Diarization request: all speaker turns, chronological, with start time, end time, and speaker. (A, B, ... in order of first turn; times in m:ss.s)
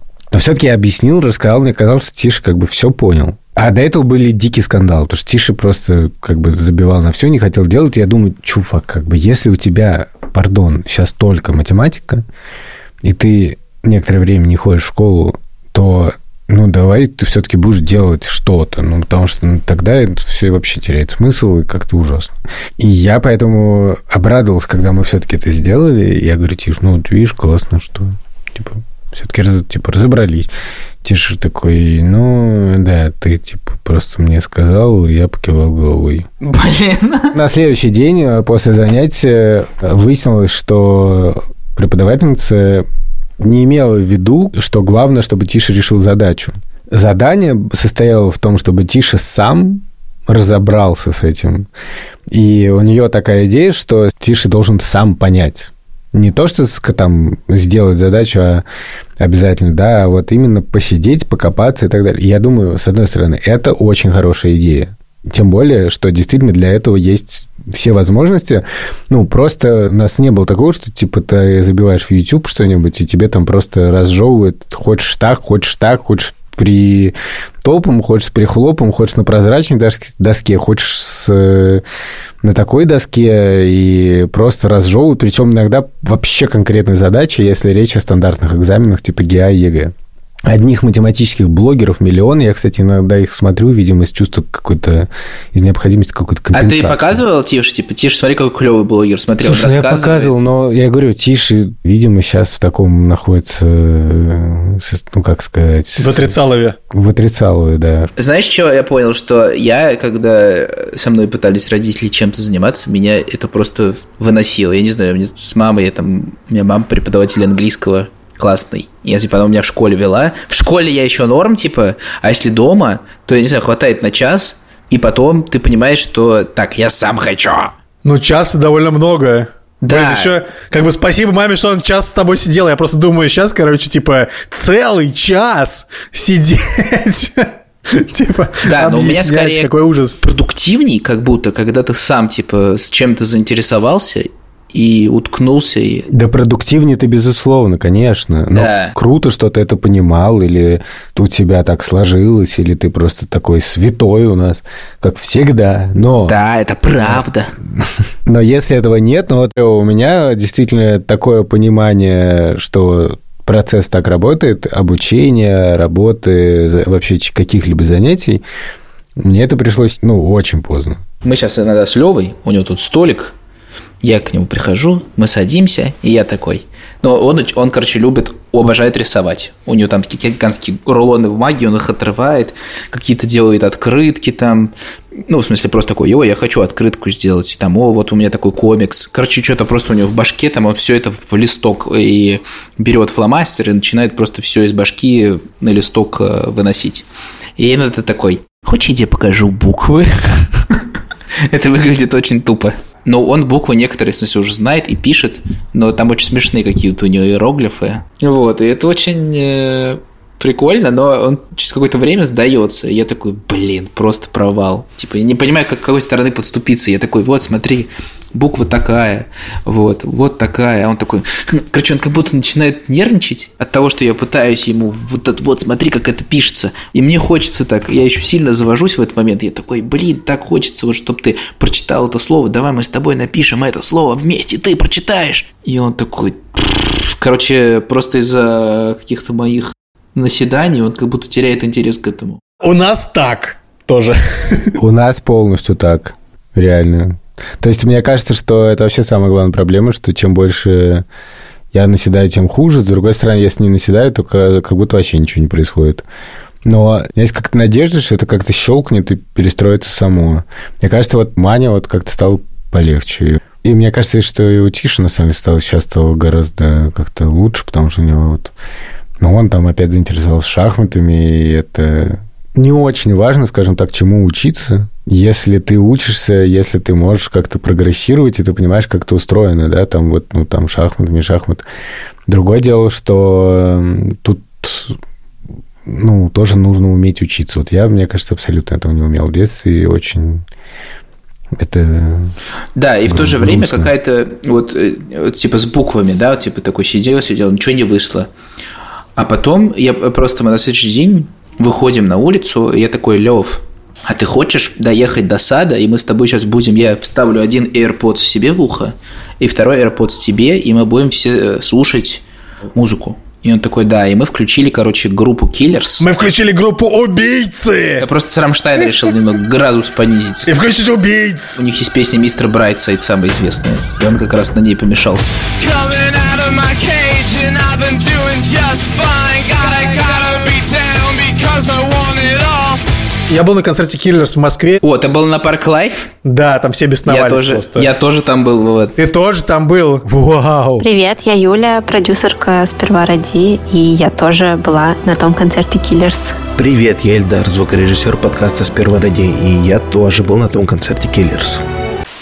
0:00.3-0:12.2 A
0:13.0-0:30.5 A
0:31.0-0:36.3 A
0:36.4-0:37.3 B
0:37.3-0:42.9 A
0:43.4-0:51.7 A
0:52.3-0:58.6 A
0:59.2-1:21.8 A
1:22.4-1:29.9 A
1:30.4-1:37.2 A
1:36.5-1:40.3 B
1:39.4-1:46.3 A
1:46.0-1:46.8 C
1:46.9-1:48.1 A
1:48.2-2:07.7 B
2:08.0-2:20.2 C
2:09.8-2:10.3 B
2:18.6-2:19.7 B
2:20.2-2:26.1 B
2:26.1-2:36.3 A
2:28.5-2:28.9 B
2:36.2-2:37.5 B
2:37.7-2:48.4 A
2:49.2-2:51.0 A
2:51.2-2:53.3 B
2:54.0-3:04.7 B
3:05.3-3:17.0 B
3:17.6-3:20.8 B
3:21.4-4:02.4 B
4:02.6-4:04.8 C
4:04.8-4:11.0 A
4:11.7-4:16.0 A
4:16.6-4:28.5 A
4:29.2-4:41.6 A
4:42.3-4:45.0 A
4:45.8-4:50.4 A
4:51.5-4:52.3 A
4:52.8-4:58.3 B
4:53.1-4:53.9 A
4:59.2-5:12.2 B
5:12.7-5:16.1 B
5:16.0-5:18.0 C
5:18.0-5:20.5 B
5:20.5-5:21.6 C
5:21.6-5:25.3 B
5:25.6-5:32.8 D
5:33.3-5:34.8 C
5:34.8-5:36.1 B
5:36.2-5:37.9 C
5:37.0-5:38.9 B
5:39.0-5:40.0 C
5:40.0-5:40.9 A
5:40.8-5:46.4 E
5:46.6-5:51.6 F